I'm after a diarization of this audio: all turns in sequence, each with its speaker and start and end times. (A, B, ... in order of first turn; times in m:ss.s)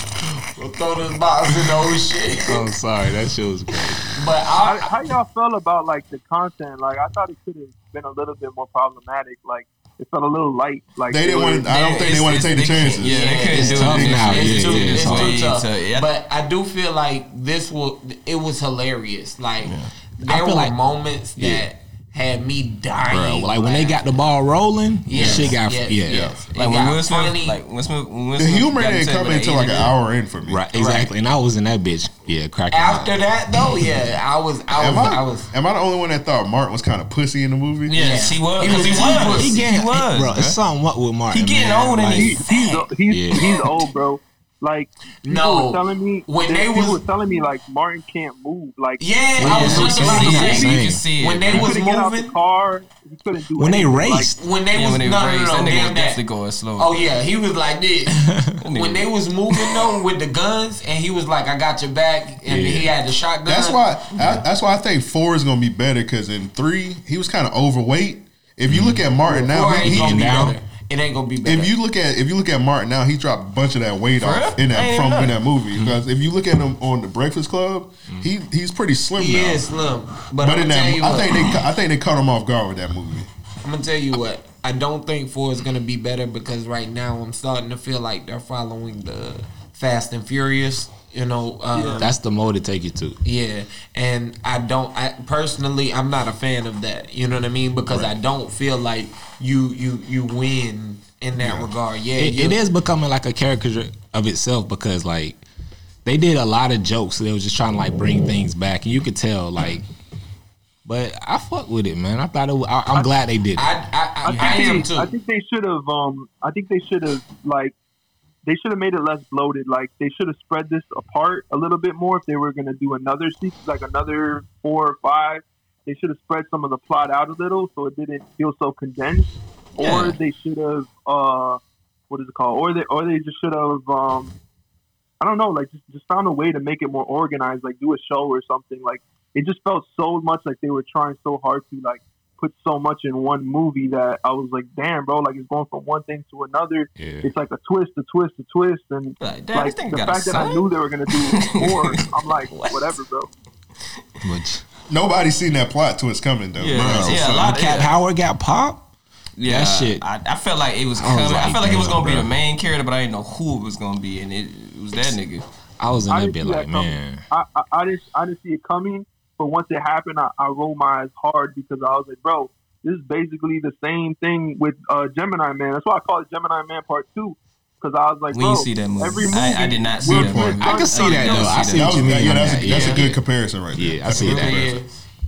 0:00.6-0:02.6 A
0:02.5-0:04.2 B
0:04.2-0:04.9 A
0:04.6-0:11.7 C
0:11.1-0:13.5 D
0:11.7-0:16.1 E
0:13.0-0:24.0 A
0:13.5-0:15.4 B
0:19.6-0:19.9 E
0:20.2-0:20.7 B
0:21.4-0:21.7 B
0:23.1-0:26.3 B
0:25.1-0:27.6 A
0:26.1-0:26.4 D
0:26.6-0:29.9 E
0:28.4-0:30.6 D
0:30.5-0:33.2 B
0:30.8-0:31.1 A
0:32.7-0:35.5 A
0:34.7-0:38.0 D
0:37.9-0:40.6 E
0:37.9-0:39.6 A
0:38.7-0:42.4 B
0:41.3-0:42.8 E
0:42.1-0:49.0 C
0:43.1-0:43.6 B
0:45.2-0:47.0 A
0:49.0-0:52.3 A
0:49.4-0:51.7 B
0:49.4-0:51.7 E
0:51.6-0:54.3 C
0:53.6-0:54.4 B
0:54.4-0:56.2 A
0:54.7-0:57.2 E
0:56.8-1:03.8 A
0:58.2-0:58.6 B
0:58.6-0:59.1 E
1:02.5-1:02.9 B
1:03.5-1:10.5 D
1:08.7-1:09.0 B
1:09.3-1:11.7 A
1:09.8-1:10.6 B
1:11.4-1:19.6 D
1:14.2-1:15.4 E
1:19.2-1:21.4 A
1:20.4-1:23.3 D
1:23.6-1:32.1 A
1:31.8-1:32.0 C
1:32.0-1:33.2 B
1:33.2-1:42.6 A
1:41.4-1:41.7 D
1:42.2-1:45.4 B
1:46.0-1:49.8 B
1:50.8-1:53.7 B
1:53.6-1:55.1 A
1:54.2-1:57.7 C
1:54.3-1:54.8 E
1:58.4-2:14.4 C
2:09.8-2:10.2 E
2:15.2-2:33.3 C
2:27.0-2:27.3 B
2:29.2-2:32.9 E
2:34.2-2:34.6 B
2:34.9-2:37.6 D
2:36.6-2:38.0 E
2:36.7-2:38.9 B
2:39.4-2:45.4 E
2:39.4-2:40.0 B
2:41.0-2:42.3 B
2:45.8-2:47.3 B
2:46.1-3:01.6 C
2:58.3-3:02.5 E
3:00.1-3:00.6 D
3:00.6-3:03.2 B
3:01.6-3:04.8 D
3:02.6-3:03.1 A
3:03.8-3:04.8 B
3:04.1-3:05.1 A